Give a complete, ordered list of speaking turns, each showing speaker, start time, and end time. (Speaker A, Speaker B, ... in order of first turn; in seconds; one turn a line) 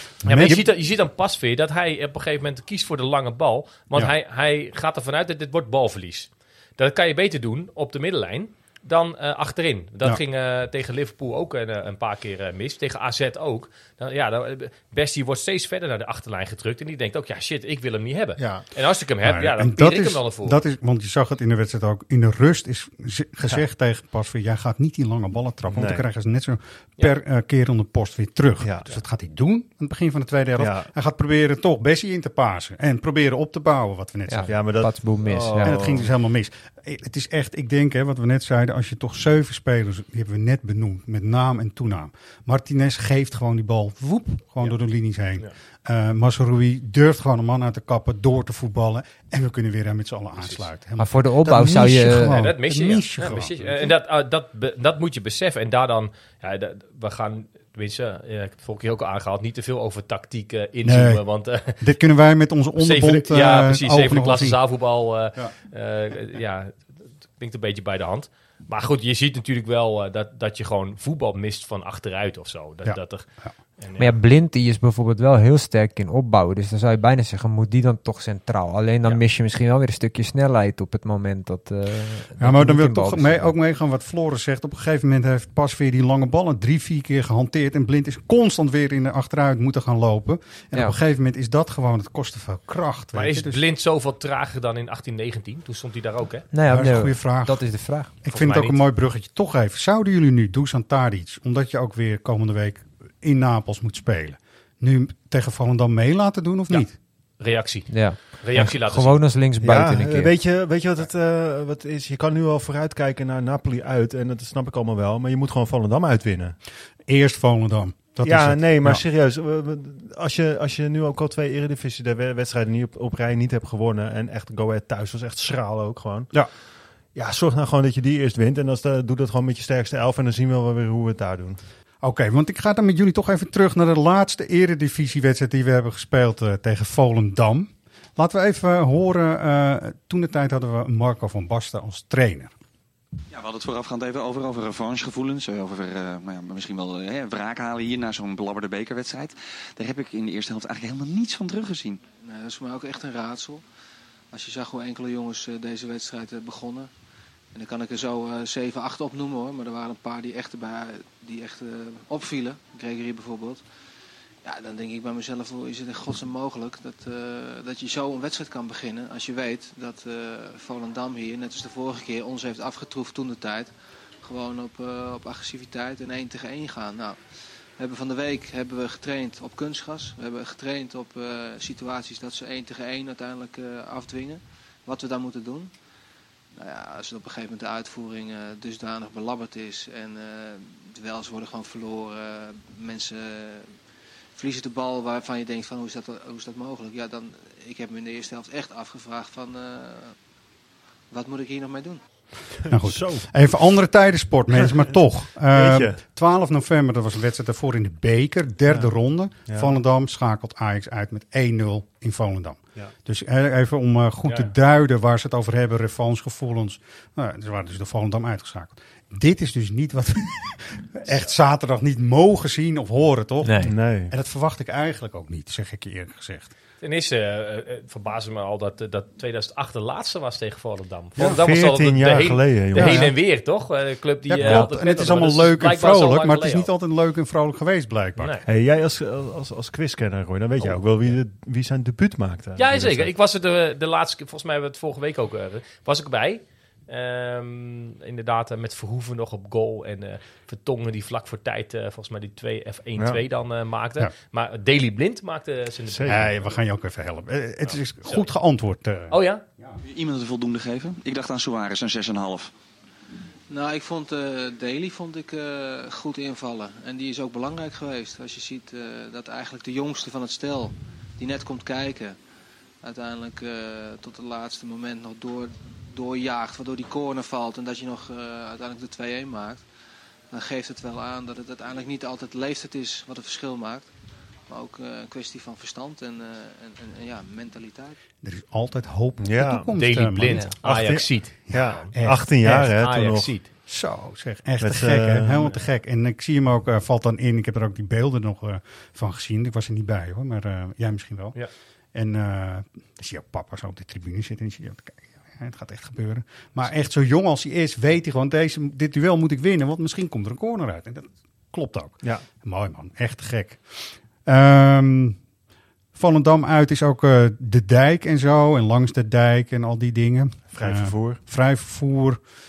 Speaker A: 0.2-0.6
Speaker B: 0.2-20.6
Speaker C: 18.4-18.6
Speaker A: 19.2-34.8
Speaker C: 25.7-26.0
Speaker C: 28.6-28.9
Speaker C: 30.6-30.9
Speaker D: 34.3-35.8
Speaker C: 34.5-36.1
Speaker A: 35.6-53.9
Speaker B: 50.4-50.6
Speaker D: 51.0-52.4
Speaker B: 52.1-61.8
Speaker A: 60.8-64.6
Speaker B: 62.8-74.1
Speaker A: 72.8-73.5
Speaker D: 74.0-83.5
Speaker A: 82.4-93.6
Speaker B: 93.1-96.5
Speaker D: 96.5-98.1
Speaker A: 96.7-106.9
Speaker B: 98.3-98.8
Speaker B: 107.4-109.3
Speaker D: 107.9-110.3
Speaker C: 109.6-116.6
Speaker A: 117.0-119.0
Speaker C: 118.2-126.4
Speaker C: 127.1-131.6
Speaker A: 132.0-142.5
Speaker E: 143.3-152.0
Speaker F: 152.2-153.6
Speaker F: 154.3-156.9
Speaker F: 157.5-163.6
Speaker F: 164.4-185.7
Speaker F: 186.5-193.8
Speaker F: 194.3-200.2
Speaker F: 201.1-202.0
Speaker C: 202.6-203.3
Speaker A: 202.7-226.5
Speaker C: 204.6-205.0
Speaker C: 205.5-206.0
Speaker C: 209.5-209.7
Speaker D: 223.4-223.7
Speaker C: 223.6-224.1
Speaker B: 226.8-236.7
Speaker C: 231.2-233.1
Speaker A: 232.7-233.2
Speaker A: 234.3-238.3
Speaker B: 238.2-238.4
Speaker C: 238.4-243.1
Speaker B: 242.6-256.4
Speaker C: 255.9-256.2
Speaker A: 256.1-259.7
Speaker B: 257.6-258.3
Speaker B: 259.1-259.4
Speaker E: 259.8-262.5
Speaker F: 263.5-272.2
Speaker F: 272.8-279.6
Speaker F: 280.3-283.9
Speaker F: 284.5-288.0
Speaker A: 288.2-292.7
Speaker C: 289.2-289.7
Speaker B: 289.7-293.5
Speaker C: 290.6-293.3
Speaker A: 293.6-301.4
Speaker C: 294.6-295.5
Speaker A: 301.9-315.2
Speaker A: 315.9-322.2
Speaker C: 320.5-321.2